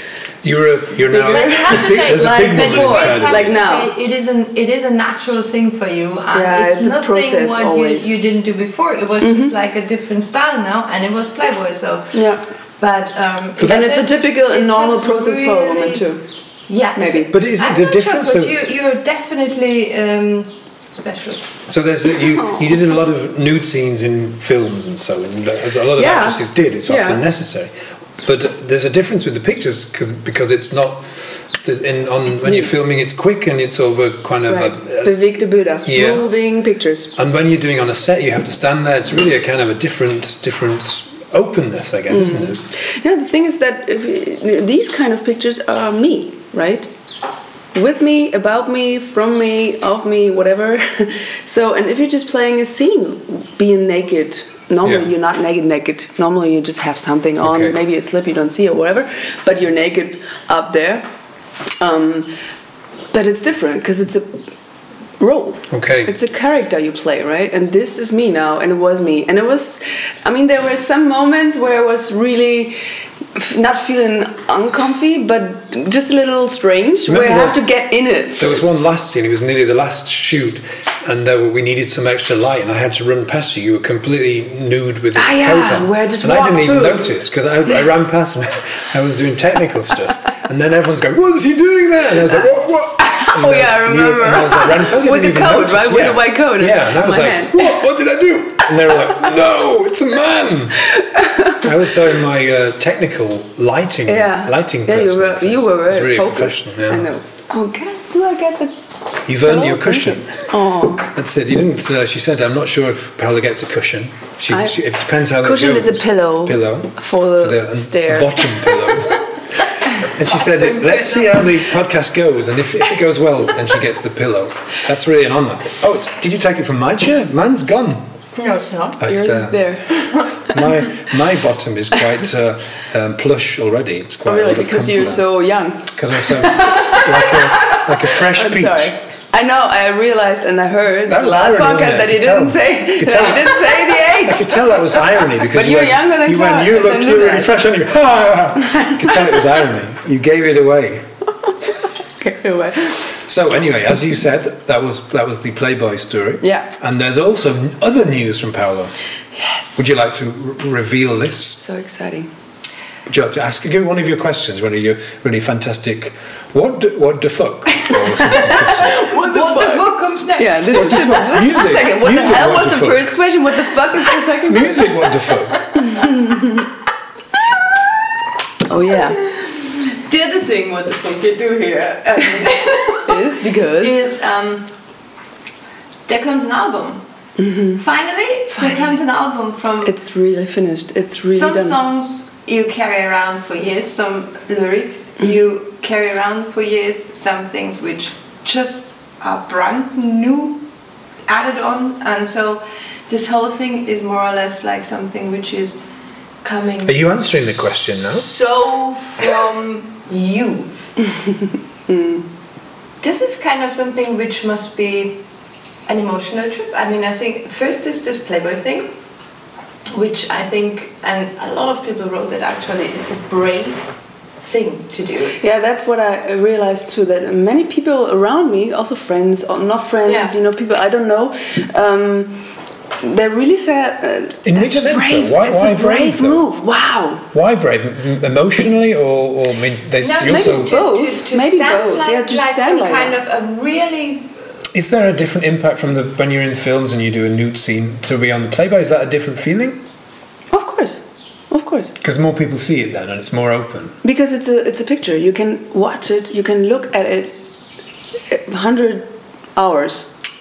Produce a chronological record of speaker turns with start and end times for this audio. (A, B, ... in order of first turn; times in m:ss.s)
0:00.4-0:03.6 A
0:01.1-0:03.9 B
0:01.1-0:12.2 C
0:06.3-0:08.1 B
0:09.2-0:09.5 B
0:12.1-0:12.4 B
0:12.8-0:16.1 C
0:13.6-0:16.2 B
0:16.7-0:21.5 C
0:17.0-0:17.3 B
0:17.3-0:18.5 A
0:21.7-0:35.1 A
0:26.0-0:27.2 B
0:32.4-0:32.7 B
0:34.5-0:37.1 B
0:35.8-0:36.3 A
0:37.2-0:42.6 A
0:42.1-0:46.9 B
0:47.7-1:01.1 B
0:54.8-0:55.1 A
0:57.4-0:57.8 A
1:01.8-1:02.3 B
1:03.1-1:04.4 B
1:05.2-1:12.8 B
1:05.7-1:06.1 A
1:13.4-1:18.8 B
1:17.1-1:17.6 A
1:18.4-1:40.9 A
1:25.2-1:27.1 B
1:33.0-1:37.8 B
1:40.9-1:41.7 B
1:41.5-1:47.1 A
1:44.1-1:48.7 B
1:49.3-1:50.5 A
1:49.4-1:51.1 B
1:51.0-1:59.3 A
1:54.5-1:54.8 B
1:55.4-1:59.0 B
2:00.0-2:01.6 C
2:00.0-2:08.1 A
2:08.4-2:09.0 C
2:09.0-2:09.6 A
2:09.0-2:10.6 B
2:10.5-2:15.3 A
2:14.2-2:27.6 B
2:16.0-2:18.9 A
2:21.1-2:31.1 A
2:28.6-2:29.3 B
2:32.2-2:33.2 B
2:33.2-2:38.9 A
2:36.4-2:36.7 B
2:39.4-2:39.8 B
2:39.8-2:41.6 A
2:41.5-2:42.3 B
2:43.1-2:49.1 A
2:47.9-2:54.9 B
2:49.0-2:51.3 C
2:50.7-2:53.1 A
2:54.4-2:55.6 A
2:55.8-2:56.7 B
2:58.7-2:59.2 B
2:59.3-3:04.7 C
3:03.0-3:04.0 B
3:06.1-3:07.0 C
3:07.4-3:07.8 B
3:07.8-3:09.9 C
3:08.6-3:08.9 B
3:09.8-3:11.8 B
3:11.2-3:20.6 C
3:21.3-3:25.8 C
3:26.4-3:27.1 C
3:26.8-3:28.3 A
3:28.0-3:30.7 C
3:31.1-3:32.2 B
3:33.0-3:35.2 C
3:35.9-3:38.9 C
3:39.9-3:43.9 C
3:44.4-3:45.4 C
3:45.4-3:52.4 B
3:50.1-3:50.3 C
3:53.0-3:57.3 B
3:54.4-3:56.5 A
3:57.3-4:00.8 A
4:00.0-4:04.3 C
4:00.2-4:03.2 B
4:04.7-4:09.8 A
4:10.5-4:12.0 B
4:12.0-4:14.0 A
4:14.0-4:17.5 B
4:18.3-4:20.1 B